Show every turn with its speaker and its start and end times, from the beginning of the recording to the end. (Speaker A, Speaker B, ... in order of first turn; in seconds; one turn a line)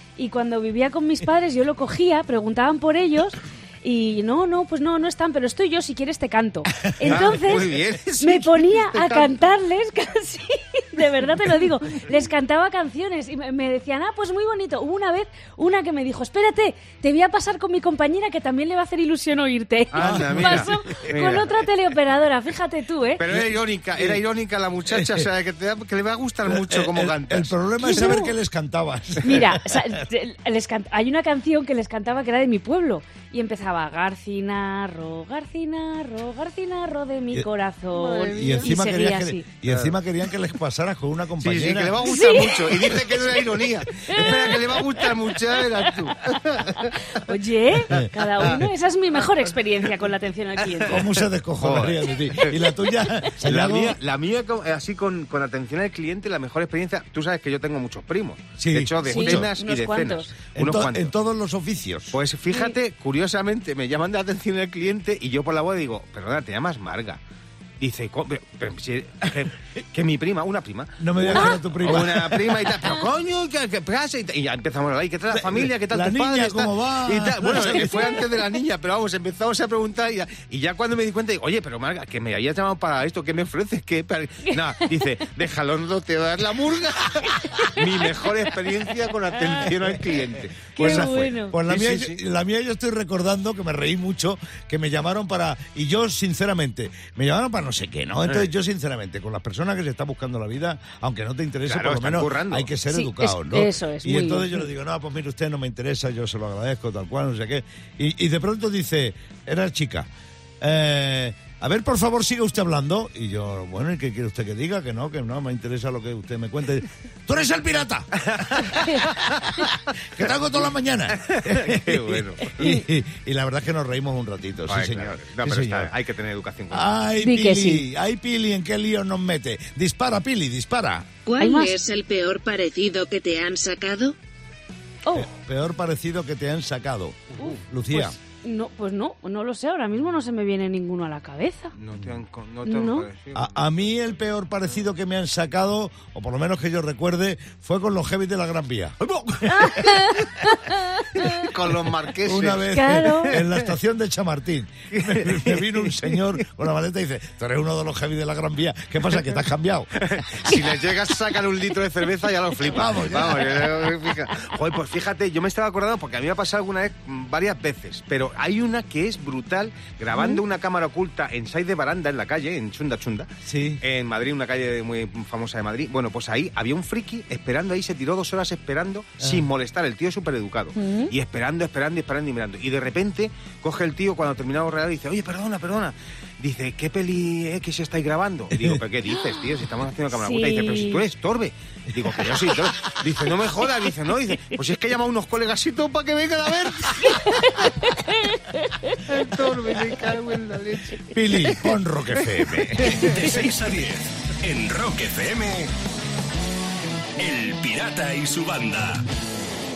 Speaker A: 0.2-23.2
Speaker B: 6.8-7.4
Speaker C: 7.0-9.3
Speaker C: 19.9-21.6
Speaker B: 19.9-21.0
Speaker C: 23.2-27.5
Speaker B: 23.3-24.2
Speaker B: 24.9-25.2
Speaker B: 26.5-30.0
Speaker A: 27.8-28.3
Speaker A: 29.2-39.5
Speaker C: 38.0-38.6
Speaker B: 38.3-42.0
Speaker C: 39.6-40.0
Speaker C: 41.4-47.0
Speaker A: 42.0-42.9
Speaker A: 44.1-44.8
Speaker A: 47.1-51.0
Speaker C: 48.0-48.6
Speaker C: 50.8-52.2
Speaker B: 50.9-54.0
Speaker A: 52.4-53.3
Speaker C: 53.4-61.1
Speaker B: 58.6-59.5
Speaker A: 59.0-60.3
Speaker B: 60.5-62.2
Speaker C: 62.1-67.2
Speaker C: 67.8-92.2
Speaker B: 71.0-72.7
Speaker A: 71.3-71.6
Speaker B: 75.3-78.1
Speaker B: 89.7-90.1
Speaker B: 90.7-110.1
Speaker A: 90.8-91.6
Speaker C: 101.7-102.7
Speaker A: 102.9-104.6
Speaker B: 110.6-125.9
Speaker C: 118.4-119.3
Speaker C: 121.2-122.6
Speaker C: 124.7-127.0
Speaker B: 126.7-131.1
Speaker A: 127.2-127.8
Speaker D: 131.2-134.1
Speaker A: 131.4-131.7
Speaker B: 135.1-138.2
Speaker A: 137.4-141.7
Speaker C: 141.8-143.5
Speaker A: 142.7-143.1
Speaker B: 143.3-149.8
Speaker A: 149.5-151.4
Speaker C: 151.2-153.5
Speaker B: 152.2-160.0
Speaker A: 152.7-153.3
Speaker C: 154.9-156.2
Speaker C: 160.1-173.3
Speaker B: 162.7-163.8
Speaker A: 170.1-170.4
Speaker B: 173.4-173.8
Speaker C: 173.8-197.7
Speaker B: 179.2-179.5
Speaker A: 180.8-181.1
Speaker B: 188.5-188.8
Speaker A: 190.2-191.0
Speaker A: 197.0-199.0
Speaker C: 199.1-201.0
Speaker B: 201.1-203.1
Speaker E: 202.8-205.7
Speaker E: 207.2-209.0